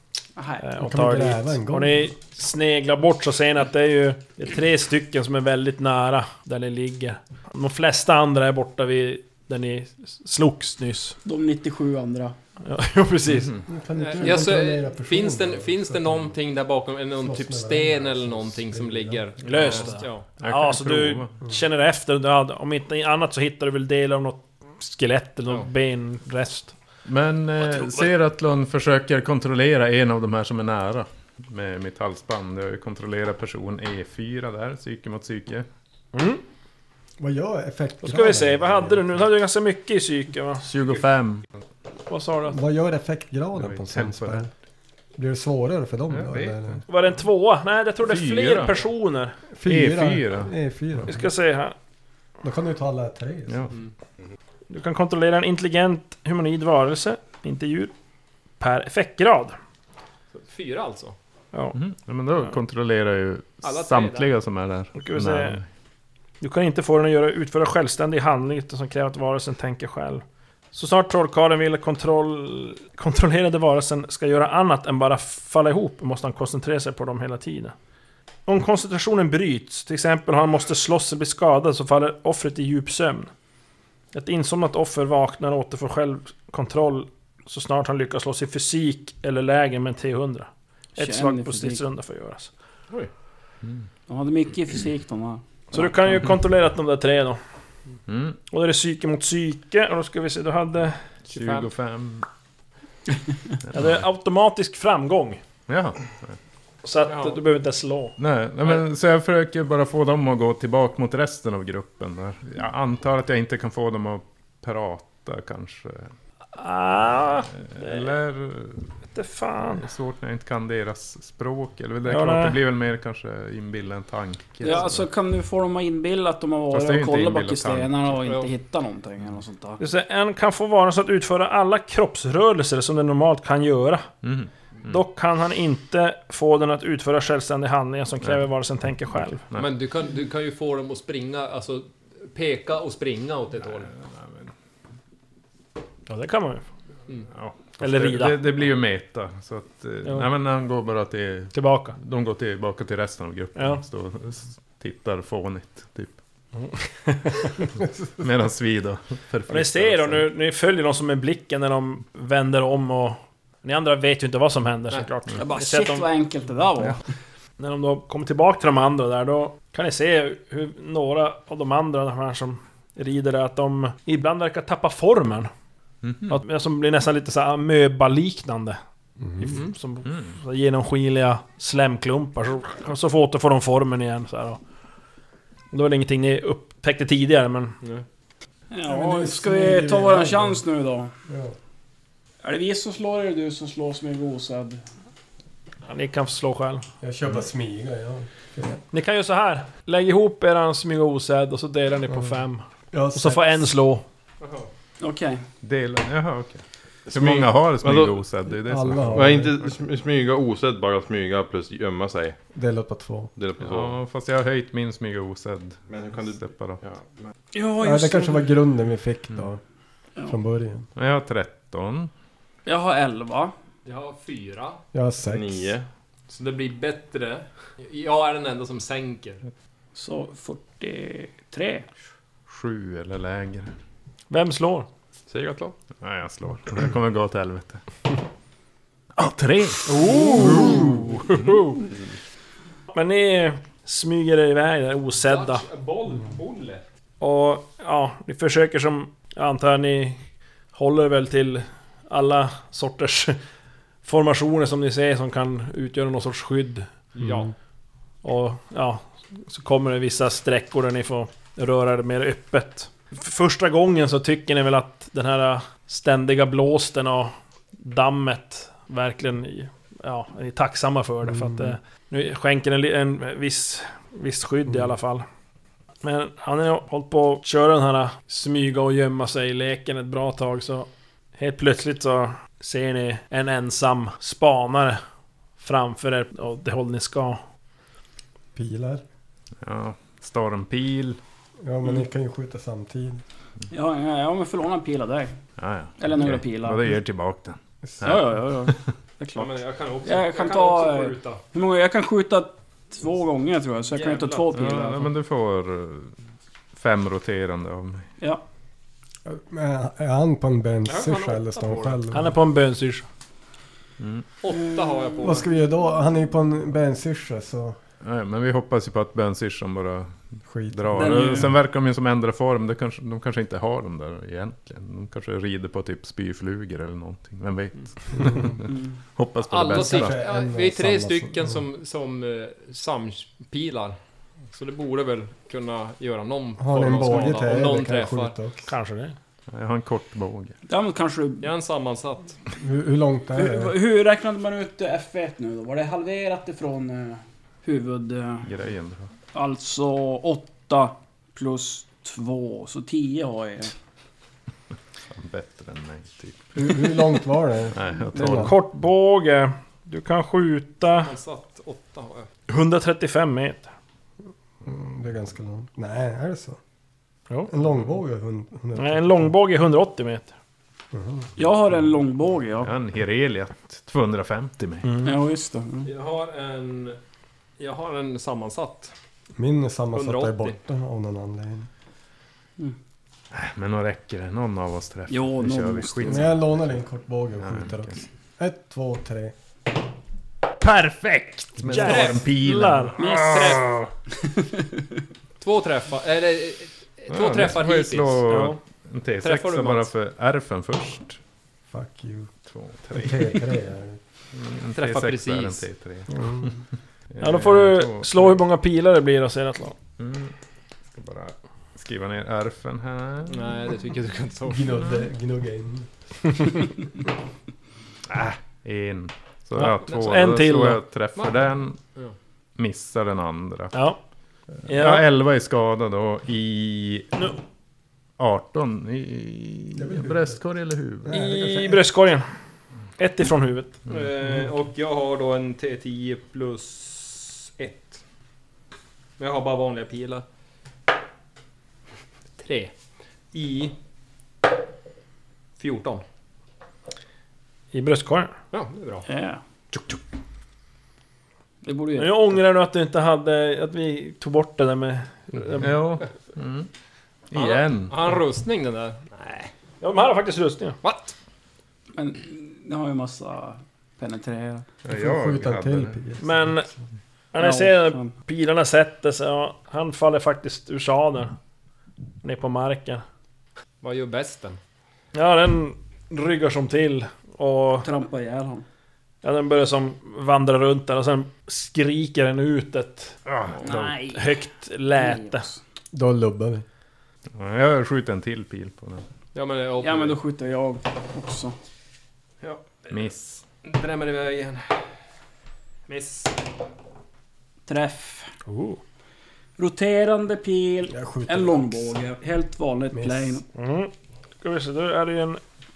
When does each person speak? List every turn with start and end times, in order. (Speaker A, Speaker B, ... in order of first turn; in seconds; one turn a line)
Speaker A: 0.3-0.6
Speaker B: 0.6-11.2
Speaker C: 0.8-2.1
Speaker A: 11.2-12.3
Speaker B: 12.6-13.5
Speaker C: 13.7-16.3
Speaker D: 14.0-20.3
Speaker C: 17.2-19.2
Speaker B: 19.4-26.7
Speaker E: 20.4-21.3
Speaker E: 27.0-35.6
Speaker B: 36.1-36.4
Speaker C: 37.2-39.0
Speaker B: 38.0-40.7
Speaker E: 40.6-41.5
Speaker B: 42.1-42.6
Speaker C: 42.5-44.5
Speaker E: 43.6-44.5
Speaker C: 45.2-46.8
Speaker E: 46.1-46.8
Speaker B: 46.9-49.4
Speaker E: 48.0-48.8
Speaker C: 49.6-51.2
Speaker E: 49.6-51.0
Speaker B: 51.1-51.7
Speaker C: 52.4-53.7
Speaker E: 53.5-53.7
Speaker B: 54.7-57.9
Speaker B: 58.6-59.6
Speaker D: 60.3-61.1
Speaker B: 61.5-61.8
Speaker E: 61.7-65.7
Speaker D: 63.6-64.3
Speaker B: 64.9-65.6
Speaker B: 66.4-77.7
Speaker B: 78.5-83.3
Speaker B: 84.1-92.5
Speaker A: 91.0-91.8
Speaker A: 94.1-95.9
Speaker B: 95.7-97.4
Speaker E: 98.1-98.4
Speaker B: 98.5-101.0
Speaker D: 101.3-101.7
Speaker E: 101.3-102.2
Speaker E: 103.7-104.0
Speaker B: 103.7-105.4
Speaker E: 105.7-106.4
Speaker B: 106.8-108.2
Speaker D: 107.1-107.4
Speaker E: 108.2-116.1
Speaker B: 116.5-118.2
Speaker E: 117.6-118.9
Speaker B: 119.1-119.9
Speaker E: 119.7-125.0
Speaker B: 122.0-122.6
Speaker A: 124.6-129.8
Speaker E: 126.7-128.0
Speaker D: 128.2-128.5
Speaker B: 129.8-134.1
Speaker E: 134.2-135.0
Speaker B: 134.8-139.4
Speaker D: 139.5-143.9
Speaker E: 143.6-144.5
Speaker B: 146.1-146.7
Speaker E: 147.3-156.2
Speaker B: 147.8-148.5
Speaker B: 151.5-152.0
Speaker B: 153.5-153.8
Speaker B: 156.6-157.5
Speaker E: 158.2-160.3
Speaker B: 159.5-166.1
Speaker A: 165.4-167.0
Speaker B: 167.6-175.5
Speaker E: 176.0-176.4
Speaker B: 176.3-178.8
Speaker C: 179.2-179.6
Speaker B: 179.4-184.6
Speaker E: 180.0-180.4
Speaker B: 185.7-187.8
Speaker A: 188.7-191.1
Speaker C: 188.8-190.6
Speaker C: 191.3-191.6
Speaker A: 192.4-194.8
Speaker B: 195.9-196.8
Speaker C: 197.0-198.8
Speaker B: 198.9-204.0
Speaker C: 202.9-203.8
Speaker D: 204.4-204.7
Speaker A: 205.0-205.4
Speaker E: 205.6-209.7
Speaker F: 207.1-208.3
Speaker C: 208.6-209.6
Speaker F: 209.1-212.4
Speaker C: 212.5-213.3
Speaker F: 213.3-214.0
Speaker E: 213.6-216.8
Speaker F: 215.9-217.3
Speaker A: 217.5-218.5
Speaker C: 217.8-219.6
Speaker C: 220.2-220.9
Speaker E: 220.9-222.1
Speaker A: 222.7-223.5
Speaker D: 223.8-224.8
Speaker C: 224.9-225.7
Speaker F: 225.2-225.9
Speaker D: 226.3-229.4
Speaker A: 229.9-231.9
Speaker E: 232.5-233.7
Speaker B: 234.3-234.9
Speaker F: 235.3-235.7
Speaker E: 236.0-237.8
Speaker E: 239.2-240.1
Speaker B: 239.9-241.8
Speaker E: 240.6-241.2
Speaker B: 242.9-245.6
Speaker D: 245.2-246.8
Speaker B: 247.2-250.2
Speaker B: 250.7-253.4
Speaker B: 254.0-256.9
Speaker D: 257.1-257.5
Speaker B: 258.2-275.2
Speaker C: 271.2-271.7
Speaker B: 276.0-285.0
Speaker B: 285.6-287.4
Speaker C: 288.6-289.0
Speaker E: 289.6-291.2
Speaker C: 291.6-293.2
Speaker A: 293.7-295.4
Speaker E: 295.6-298.7
Speaker A: 296.0-296.9
Speaker A: 298.0-305.1
Speaker D: 299.3-301.4
Speaker D: 303.9-304.7
Speaker E: 304.5-306.1
Speaker E: 306.7-308.1
Speaker C: 309.2-312.3
Speaker D: 310.9-312.1
Speaker B: 312.1-313.0
Speaker E: 314.0-314.3
Speaker D: 314.4-315.5
Speaker A: 314.5-315.4
Speaker C: 315.2-317.8
Speaker E: 318.0-330.2
Speaker C: 320.5-321.2
Speaker A: 320.9-321.6
Speaker C: 328.2-328.6
Speaker D: 329.5-333.9
Speaker C: 329.7-331.6
Speaker D: 334.5-338.3
Speaker C: 336.6-338.7
Speaker B: 338.6-339.1
Speaker E: 339.5-340.6
Speaker A: 340.7-341.5
Speaker D: 341.4-342.3
Speaker C: 342.6-343.8
Speaker A: 343.4-348.5
Speaker E: 348.4-349.1
Speaker A: 349.3-353.7
Speaker E: 355.1-356.6
Speaker C: 356.5-358.5
Speaker E: 357.7-358.6
Speaker B: 358.3-361.1
Speaker D: 361.0-362.3
Speaker B: 362.5-363.7
Speaker C: 364.6-366.6
Speaker C: 367.5-369.3
Speaker B: 368.7-370.3
Speaker C: 370.9-371.3
Speaker A: 371.4-372.7
Speaker E: 372.6-374.9
Speaker B: 374.8-375.1
Speaker A: 375.0-375.9
Speaker D: 375.8-377.0
Speaker D: 377.6-378.9
Speaker C: 379.4-381.7
Speaker D: 379.9-380.6
Speaker E: 383.3-386.4
Speaker A: 385.1-386.2
Speaker C: 386.0-389.3
Speaker E: 387.4-387.9
Speaker E: 390.6-393.9
Speaker B: 391.6-393.0
Speaker D: 391.7-392.2
Speaker A: 393.0-393.7
Speaker D: 393.1-393.6
Speaker A: 394.2-394.8
Speaker D: 395.4-398.2
Speaker E: 397.1-401.2
Speaker B: 398.3-398.6
Speaker D: 399.2-399.9
Speaker C: 401.7-402.3
Speaker E: 402.4-403.4
Speaker C: 402.9-404.0
Speaker E: 404.3-406.5
Speaker D: 404.7-405.6
Speaker C: 406.1-406.5
Speaker E: 407.1-408.4
Speaker B: 407.2-409.8
Speaker E: 410.0-410.3
Speaker E: 410.9-413.5
Speaker D: 413.3-415.0
Speaker C: 414.5-415.9
Speaker E: 418.1-421.8
Speaker B: 419.5-420.8
Speaker D: 419.9-420.1
Speaker E: 422.6-423.8
Speaker B: 423.7-424.0
Speaker E: 424.6-427.1
Speaker B: 424.6-425.1
Speaker E: 428.2-431.1
Speaker C: 429.7-430.4
Speaker C: 431.0-431.9
Speaker B: 431.1-432.2
Speaker B: 433.0-433.7
Speaker D: 433.9-438.0
Speaker D: 439.2-440.2
Speaker D: 442.4-442.7
Speaker D: 443.3-443.7
Speaker D: 445.6-446.0
Speaker B: 447.7-448.3
Speaker D: 448.5-449.1
Speaker A: 449.1-449.4
Speaker A: 451.6-452.4
Speaker B: 452.0-455.7
Speaker E: 455.4-456.7
Speaker E: 457.3-458.0
Speaker D: 457.3-459.5
Speaker B: 459.8-460.8
Speaker D: 460.8-461.1
Speaker A: 461.9-464.7
Speaker E: 464.8-466.0
Speaker C: 464.9-466.8
Speaker B: 466.2-466.7
Speaker B: 467.3-471.4
Speaker A: 467.4-468.1
Speaker B: 472.2-473.0
Speaker D: 473.8-474.6
Speaker B: 475.1-477.9
Speaker A: 477.8-478.6
Speaker B: 479.2-483.1
Speaker E: 483.2-483.9
Speaker A: 483.6-484.4
Speaker B: 484.1-485.5
Speaker A: 484.9-485.6
Speaker C: 485.9-486.6
Speaker E: 487.3-489.0
Speaker D: 489.3-490.2
Speaker A: 489.8-491.6
Speaker D: 492.4-493.0
Speaker E: 492.9-493.4
Speaker D: 493.6-494.8
Speaker D: 495.9-496.4
Speaker A: 497.7-498.3
Speaker B: 498.4-498.8
Speaker A: 499.6-503.4
Speaker C: 500.9-502.0
Speaker C: 502.9-503.4
Speaker B: 503.5-505.4